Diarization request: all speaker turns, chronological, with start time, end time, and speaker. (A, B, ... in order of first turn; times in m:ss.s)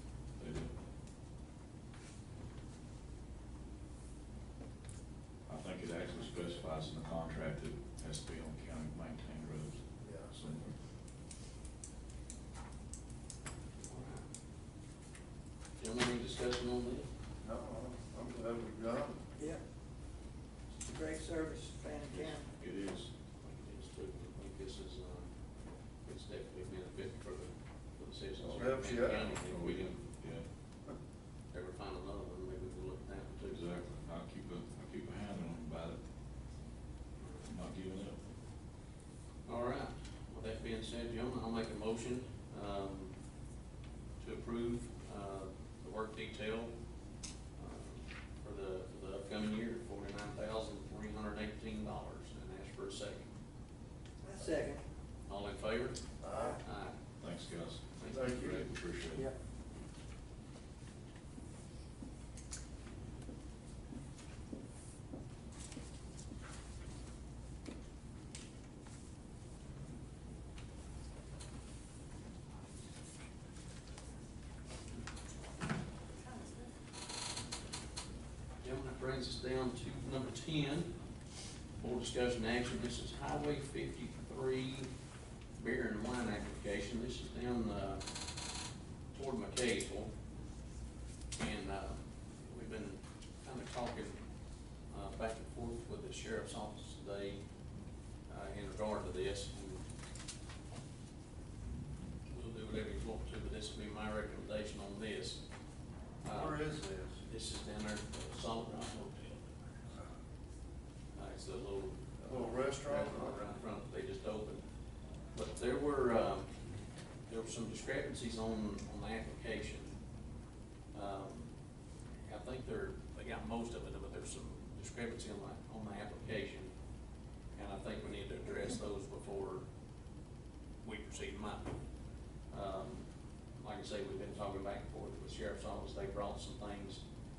0:00.4-0:00.7 A
0:05.5-0:10.7 A
0:10.0-0:10.4 B
0:13.8-0:14.3 C
0:15.8-0:17.1 C
0:17.4-0:19.2 B
0:20.9-0:22.5 D
0:22.1-0:23.1 A
0:23.4-0:25.3 C
0:26.0-0:30.0 C
0:28.4-0:29.4 B
0:29.5-0:30.4 A
0:31.5-0:33.7 C
0:33.5-0:36.0 A
0:37.2-0:37.5 C
0:37.5-0:38.2 A
0:39.5-0:43.2 C
0:44.2-0:46.7 C
0:47.6-0:53.3 C
0:54.4-0:54.8 D
0:55.3-0:56.0 C
0:56.2-0:56.6 B
0:56.6-0:57.0 C
0:57.2-0:59.3 A
0:58.0-0:58.6 C
0:58.1-0:58.6 B
1:18.6-1:20.9 C
1:21.8-1:24.9 C
1:25.6-1:28.0 C
1:29.1-1:30.1 C
1:31.4-1:34.2 C
1:34.9-1:37.4 C
1:38.3-1:39.8 C
1:42.3-1:45.4 C
1:46.2-1:46.6 C
1:46.3-1:47.2 B
1:47.2-1:49.6 C
1:51.2-1:54.6 C
1:52.3-1:53.4 B
1:55.3-1:56.5 C
1:57.3-1:59.9 C
2:00.9-2:01.5 C
2:02.3-2:06.7 C
2:07.6-2:09.7 C
2:10.8-2:11.8 C
2:12.5-2:13.1 C
2:13.6-2:17.0 C